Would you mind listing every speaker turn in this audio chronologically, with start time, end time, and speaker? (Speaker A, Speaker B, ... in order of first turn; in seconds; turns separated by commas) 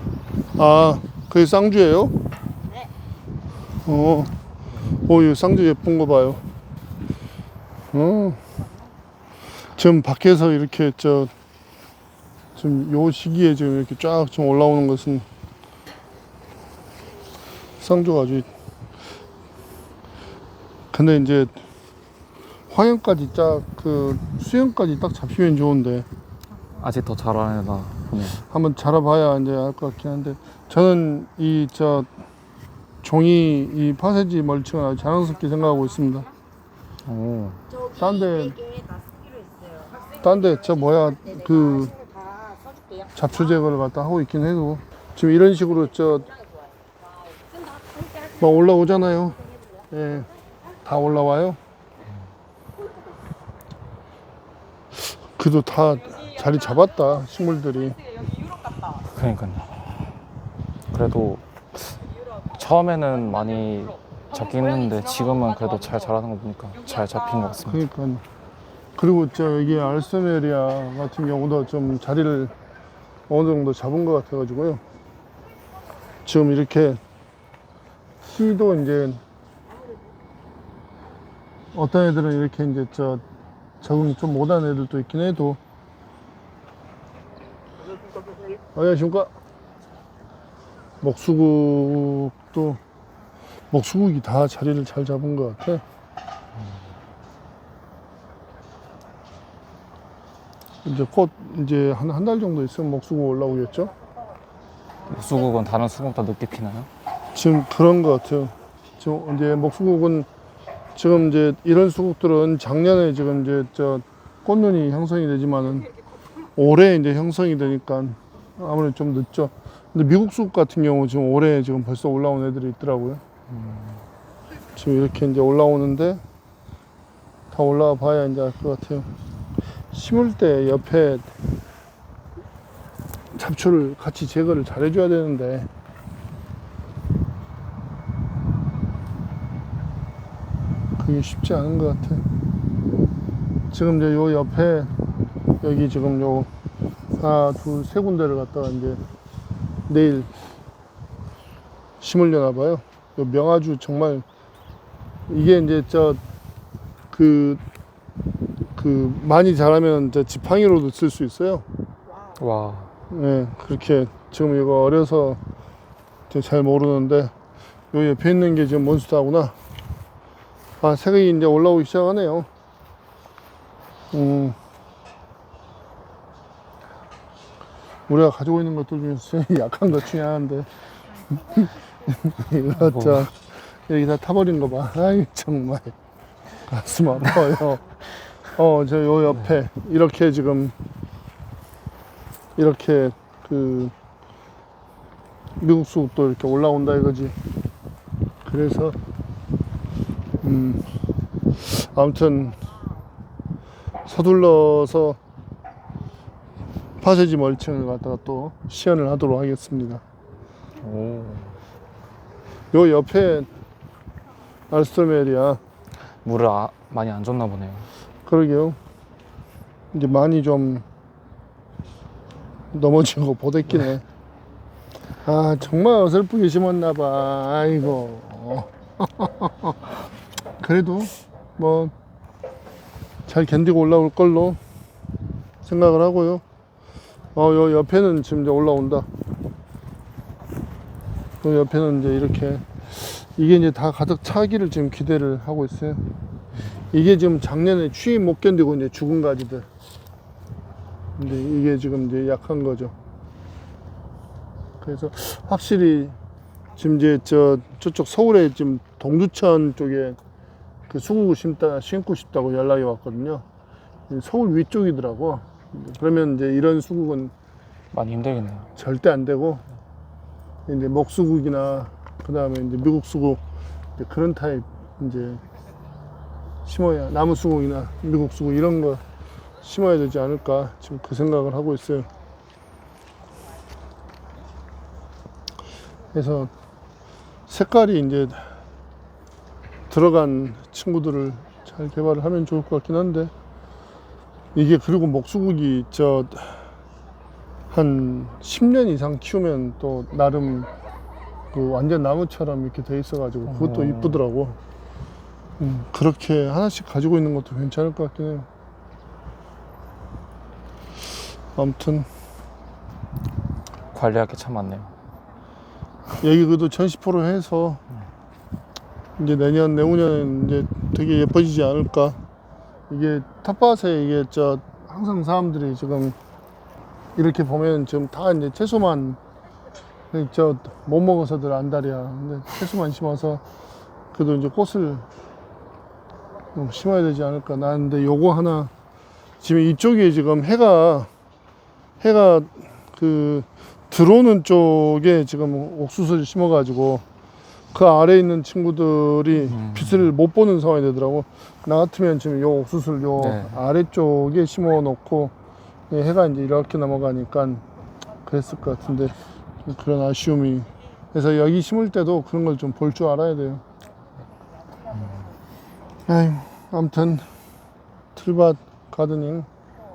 Speaker A: 0.5-2.2, Speaker A: 3.8-4.3, Speaker A: 4.9-6.4, Speaker A: 7.9-8.4, Speaker A: 9.7-11.3, Speaker A: 12.5-15.2, Speaker A: 17.8-18.5, Speaker A: 20.9-21.5, Speaker A: 22.7-26.1, Speaker B: 26.8-28.4, Speaker A: 28.4-32.1, Speaker A: 33.0-36.3, Speaker B: 37.0-37.6, Speaker A: 37.9-38.6, Speaker C: 38.7-40.0, Speaker A: 40.1-42.0, Speaker C: 42.1-43.0, Speaker A: 43.1-46.4, Speaker A: 48.4-50.3, Speaker A: 50.8-51.6, Speaker A: 55.2-58.2, Speaker B: 58.9-59.7, Speaker B: 60.9-67.8, Speaker A: 67.7-68.2, Speaker A: 69.0-72.5, Speaker A: 73.3-74.8, Speaker A: 76.2-77.0, Speaker A: 78.2-79.2, Speaker A: 81.7-83.2, Speaker A: 83.8-85.6, Speaker A: 88.7-89.3, Speaker A: 91.0-92.8, Speaker A: 93.7-95.8, Speaker A: 100.8-103.9, Speaker B: 105.1-106.9, Speaker A: 107.3-110.3, Speaker A: 110.9-115.9, Speaker A: 116.5-123.2, Speaker A: 124.7-126.2, Speaker A: 127.5-129.1, Speaker A: 129.9-131.3, Speaker A: 133.3-135.7, Speaker A: 141.0-142.2, Speaker A: 143.7-144.9, Speaker A: 145.6-146.5, Speaker A: 147.2-149.0, Speaker A: 149.9-150.3, Speaker A: 152.0-154.2, Speaker A: 155.3-156.2, Speaker A: 157.1-157.6, Speaker A: 158.7-161.7, Speaker B: 162.3-162.9, Speaker A: 163.1-165.4, Speaker A: 166.3-167.3, Speaker A: 167.9-169.5, Speaker A: 170.8-172.5, Speaker A: 174.1-174.6, Speaker A: 178.1-180.7, Speaker A: 181.2-185.9, Speaker B: 182.7-183.3, Speaker A: 186.6-190.7, Speaker A: 192.6-193.9, Speaker A: 195.6-197.3, Speaker A: 198.4-198.9, Speaker A: 200.4-200.8, Speaker A: 201.6-202.6, Speaker A: 204.1-205.2, Speaker A: 207.0-210.0, Speaker B: 210.8-211.6, Speaker A: 212.7-213.5, Speaker A: 214.7-215.6, Speaker B: 216.2-217.9, Speaker A: 218.2-218.8, Speaker A: 219.9-220.8, Speaker A: 222.7-224.0, Speaker A: 225.2-229.8, Speaker A: 230.6-231.9, Speaker A: 233.2-234.6, Speaker A: 235.6-236.4, Speaker A: 237.3-239.1, Speaker A: 241.4-246.0, Speaker A: 246.9-249.7, Speaker A: 251.2-252.9, Speaker A: 254.8-256.2, Speaker A: 256.8-260.2, Speaker A: 260.9-263.4, Speaker A: 264.1-267.3, Speaker B: 267.9-268.7, Speaker A: 268.8-269.6, Speaker A: 270.7-273.4, Speaker A: 274.0-275.4, Speaker A: 276.6-279.0, Speaker A: 279.6-282.1, Speaker A: 286.1-286.5, Speaker A: 287.5-288.5, Speaker A: 289.9-293.3, Speaker A: 294.5-296.7, Speaker A: 297.7-300.7, Speaker A: 301.5-304.6, Speaker B: 303.5-304.2, Speaker A: 305.6-308.5, Speaker A: 311.5-312.1, Speaker B: 313.9-314.9, Speaker A: 316.2-317.8, Speaker A: 319.2-322.2, Speaker A: 322.9-326.1, Speaker A: 327.1-329.2, Speaker A: 330.1-333.4, Speaker A: 334.1-335.1, Speaker A: 336.5-338.7, Speaker A: 339.4-341.1, Speaker A: 342.0-347.0, Speaker A: 347.7-355.3, Speaker B: 349.4-350.1, Speaker B: 353.2-353.6, Speaker A: 355.9-357.6, Speaker A: 358.2-359.1, Speaker A: 359.6-363.6, Speaker A: 366.1-367.2, Speaker A: 368.1-369.5